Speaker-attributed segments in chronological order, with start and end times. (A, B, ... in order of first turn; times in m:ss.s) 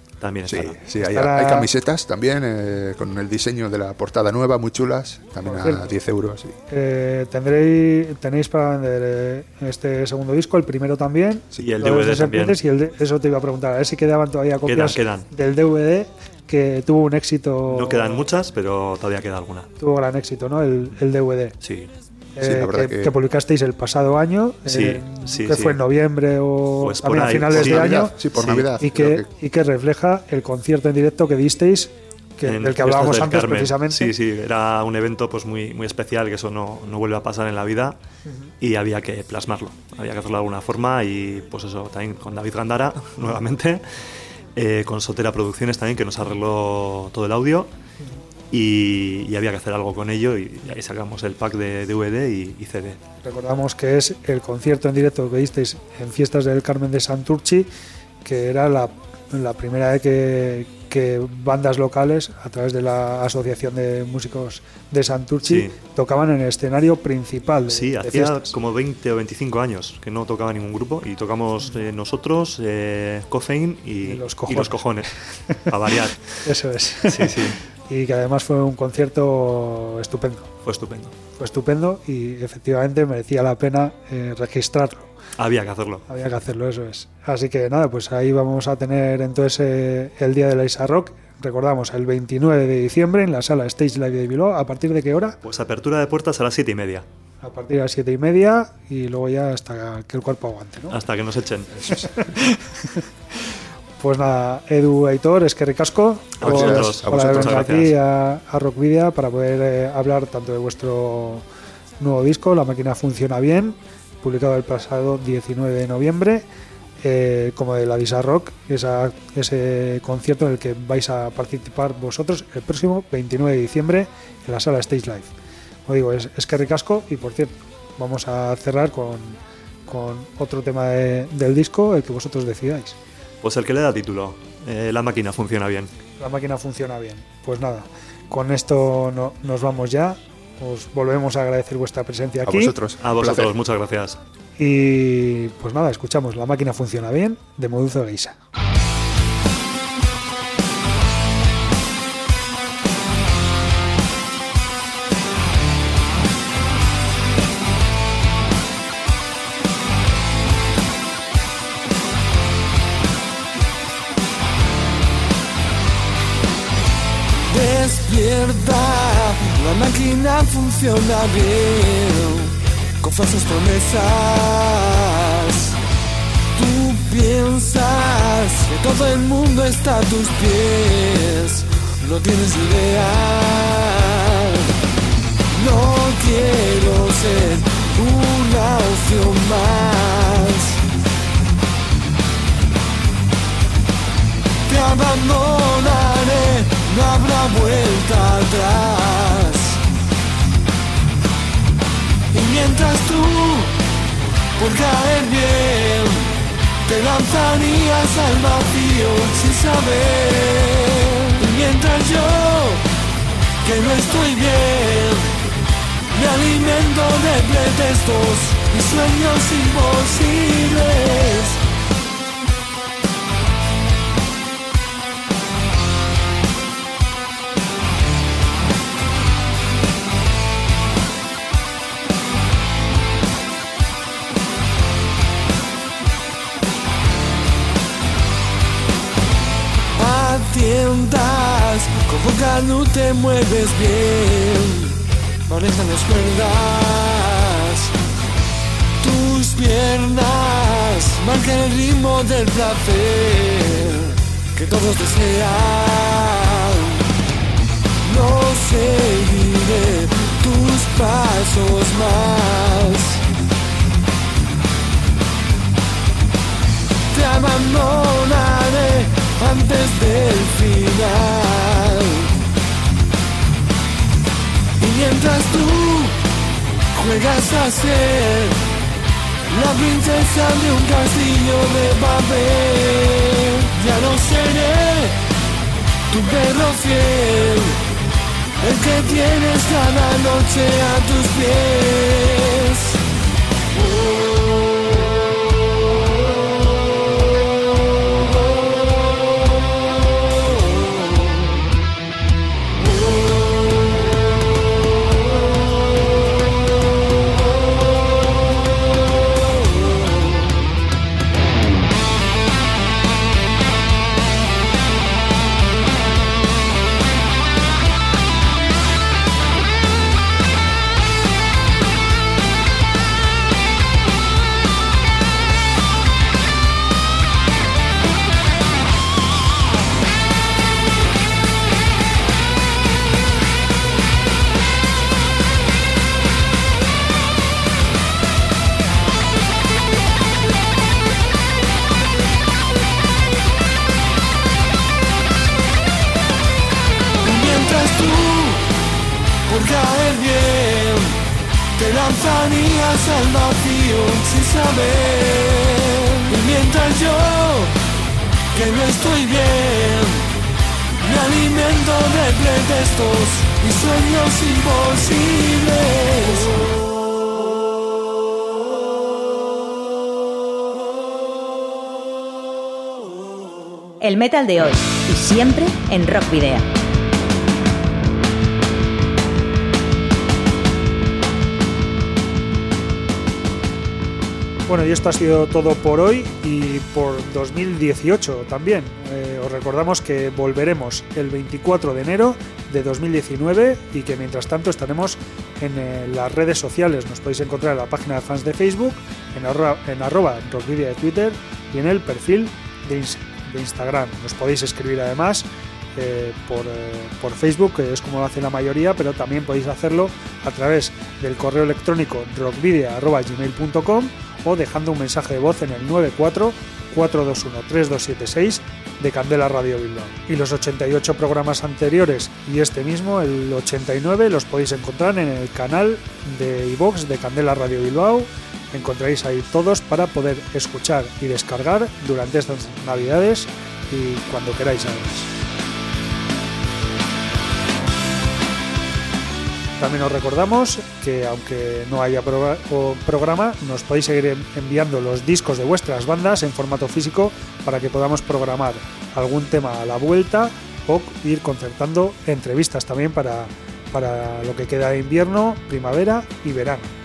0:00.2-0:00.8 A
0:00.4-0:06.5 B
0:01.0-0:01.7 C
0:05.4-0:05.9 C
0:06.7-0:18.3 C
0:11.6-0:12.6 A
0:14.6-0:15.3 A
0:17.7-0:19.7 A
0:19.8-0:21.6 C
0:21.6-0:21.9 A
0:22.4-0:28.2 C
0:22.4-0:23.1 B
0:24.7-0:25.8 A
0:26.8-0:28.7 A
0:27.2-0:29.3 B
0:28.8-0:34.1 C
0:32.4-0:38.0 A
0:38.6-0:44.0 A
0:44.5-0:47.7 A
0:48.5-0:53.0 A
0:53.2-0:57.7 C
0:58.2-1:08.5 C
1:05.4-1:05.7 A
1:07.7-1:16.4 A
1:14.0-1:14.8 C
1:16.4-1:20.5 C
1:17.0-1:17.6 A
1:20.6-1:21.1 A
1:21.4-1:25.1 C
1:25.4-1:26.0 A
1:26.1-1:35.4 C
1:35.4-1:37.0 A
1:37.4-1:41.0 C
1:40.9-1:42.0 A
1:42.0-1:43.0 C
1:44.0-1:51.4 C
1:46.4-1:47.8 B
1:46.4-1:48.0 A
1:52.0-1:56.4 C
1:57.0-2:05.3 C
2:05.8-2:13.0 C
2:13.4-2:15.9 A
2:16.2-2:22.7 C
2:22.4-2:23.5 B
2:23.0-2:24.2 A
2:24.6-2:28.3 C
2:47.4-2:55.7 D
2:56.5-3:04.6 D
3:05.5-3:10.8 D
3:14.7-3:19.8 D
3:22.3-3:23.7 D
3:24.6-3:26.3 D
3:26.8-3:32.8 D
3:33.6-3:35.4 D
3:36.1-3:41.6 D
3:59.9-4:07.9 D
4:09.0-4:17.0 D
4:18.0-4:23.2 D
4:27.1-4:32.3 D
4:34.8-4:36.2 D
4:36.9-4:38.6 D
4:39.5-4:45.2 D
4:46.1-4:47.8 D
4:48.6-4:53.0 D
5:47.2-5:48.6 D
5:49.5-5:51.2 D
5:51.8-5:57.7 D
5:58.5-6:00.3 D
6:01.0-6:06.6 D
6:14.0-6:16.7 E
6:24.7-7:15.3 C
7:19.8-7:36.9 C